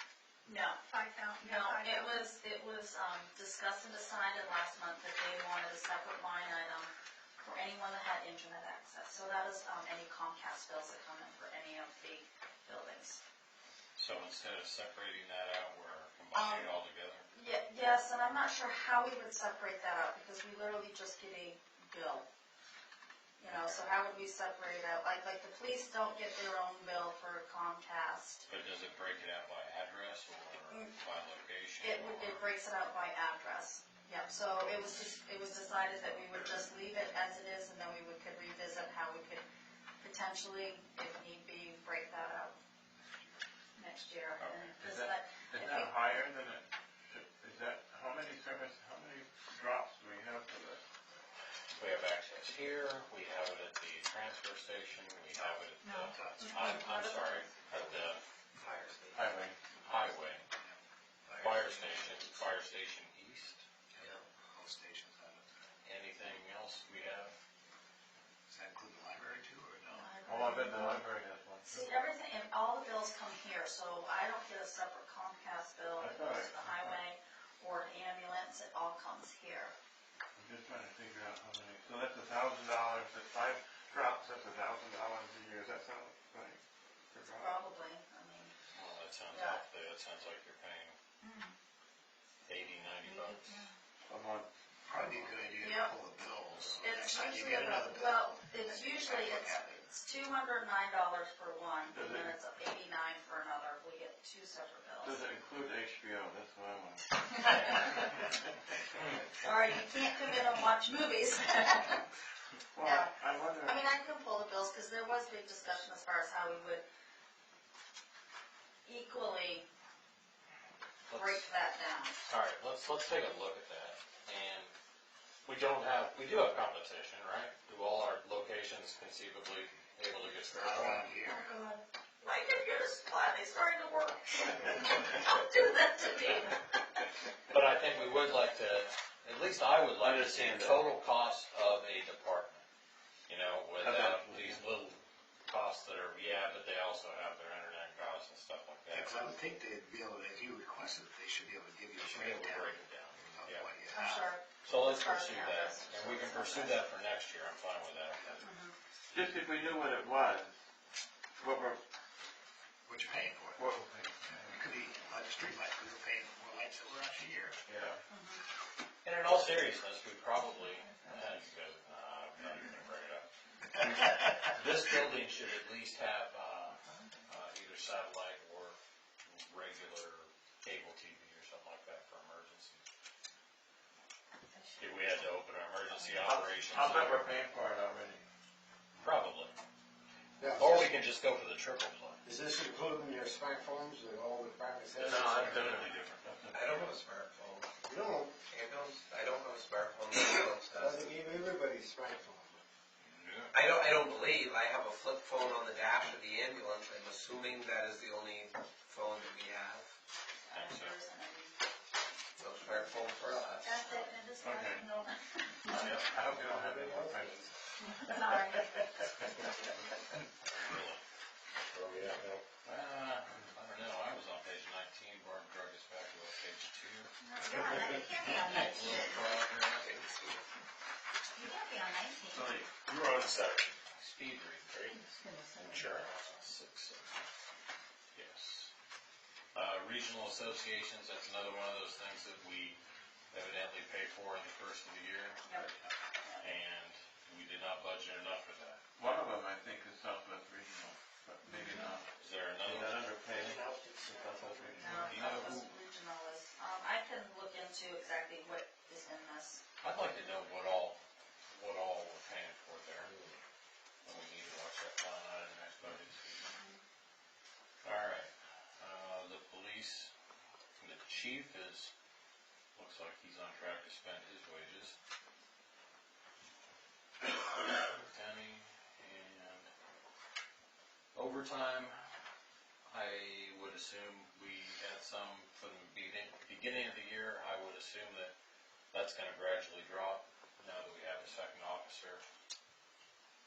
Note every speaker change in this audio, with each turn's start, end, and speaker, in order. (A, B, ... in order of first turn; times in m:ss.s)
0:00.4-0:00.8 A
0:00.8-0:02.3 B
0:01.4-0:13.2 A
0:14.0-0:17.2 C
0:16.3-0:16.7 A
0:17.3-0:22.3 A
0:23.4-0:28.4 A
0:23.5-0:23.9 C
0:28.5-0:32.4 C
0:31.8-0:39.4 A
0:40.0-0:42.6 A
0:43.8-0:45.9 A
0:44.4-0:50.8 D
0:51.7-0:58.2 C
0:55.8-0:56.1 B
0:56.1-0:56.5 E
0:56.4-0:57.5 A
0:58.7-0:59.1 F
0:59.1-0:59.6 D
0:59.8-1:00.4 C
1:01.3-1:02.2 F
1:01.4-1:03.6 C
1:03.9-1:05.6 E
1:05.8-1:07.3 C
1:08.5-1:10.1 E
1:09.9-1:11.0 A
1:10.2-1:11.9 D
1:11.6-1:19.7 A
1:16.0-1:17.0 D
1:20.4-1:26.6 D
1:27.1-1:27.6 D
1:27.4-1:28.5 A
1:28.7-1:31.0 C
1:29.3-1:29.6 A
1:31.2-1:31.5 B
1:32.4-1:33.6 C
1:33.0-1:33.7 B
1:34.1-1:34.5 D
1:34.9-1:39.9 E
1:35.6-1:35.9 A
1:36.5-1:36.8 C
1:36.8-1:45.2 A
1:41.9-1:42.3 D
1:45.0-1:48.0 D
1:47.4-1:47.9 C
1:49.4-1:52.0 A
1:52.7-1:53.8 D
1:52.8-1:56.8 A
1:58.8-1:59.6 A
2:01.1-2:01.4 C
2:01.1-2:02.2 A
2:02.2-2:04.7 C
2:05.4-2:11.3 C
2:10.5-2:11.4 E
2:11.2-2:16.6 A
2:17.5-2:22.6 C
2:20.0-2:20.9 D
2:23.3-2:29.2 C
2:23.8-2:24.6 D
2:28.9-2:32.8 E
2:32.0-2:33.7 C
2:33.3-2:34.3 E
2:33.9-2:36.8 A
2:34.6-2:38.5 C
2:38.4-2:38.7 A
2:39.1-2:40.5 D
2:41.4-2:41.8 D
2:42.8-2:43.7 E
2:43.6-2:44.6 D
2:44.3-2:47.6 E
2:47.7-2:48.0 D
2:48.1-2:48.4 A
2:49.0-3:02.8 C
2:56.9-2:57.1 B
3:04.5-3:06.2 B
3:04.8-3:07.2 C
3:06.2-3:08.2 D
3:09.0-3:09.5 C
3:10.4-3:11.0 G
3:10.5-3:12.2 C
3:12.2-3:15.8 G
3:15.0-3:16.3 C
3:15.0-3:16.8 D
3:16.5-3:17.8 F
3:17.8-3:18.4 G
3:18.5-3:21.1 F
3:20.7-3:22.6 G
3:23.0-3:23.6 C
3:23.5-3:29.9 F
3:30.5-3:31.5 A
3:30.5-3:31.0 C
3:32.4-3:33.6 F
3:33.4-3:33.9 C
3:33.6-3:35.8 A
3:34.4-3:34.8 D
3:35.6-3:37.4 D
3:35.7-3:36.0 C
3:36.2-3:37.5 G
3:37.8-3:38.7 B
3:38.0-3:38.5 A
3:38.1-3:39.0 D
3:40.6-3:41.0 C
3:42.6-3:49.9 C
3:47.2-3:49.2 B
3:47.5-3:48.1 D
3:49.7-3:50.4 F
3:51.3-3:52.6 B
3:52.3-3:52.9 D
3:52.9-3:55.0 C
3:54.9-3:55.9 B
3:55.5-3:57.1 C
3:58.1-3:58.7 C
3:59.5-4:02.8 C
4:03.3-4:05.9 C
4:06.4-4:08.8 C
4:09.0-4:12.1 D
4:11.5-4:11.9 A
4:11.6-4:12.0 B
4:12.2-4:13.4 C
4:12.6-4:15.6 D
4:13.4-4:15.0 G
4:14.8-4:19.6 A
4:15.0-4:15.6 C
4:19.8-4:21.0 C
4:21.5-4:23.3 C
4:24.0-4:26.4 C
4:26.4-4:26.8 A
4:27.8-4:30.1 C
4:30.8-4:31.9 C
4:32.7-4:35.0 C
4:37.6-4:39.7 C
4:41.1-4:41.9 C
4:42.9-4:48.3 C
4:48.9-4:52.2 C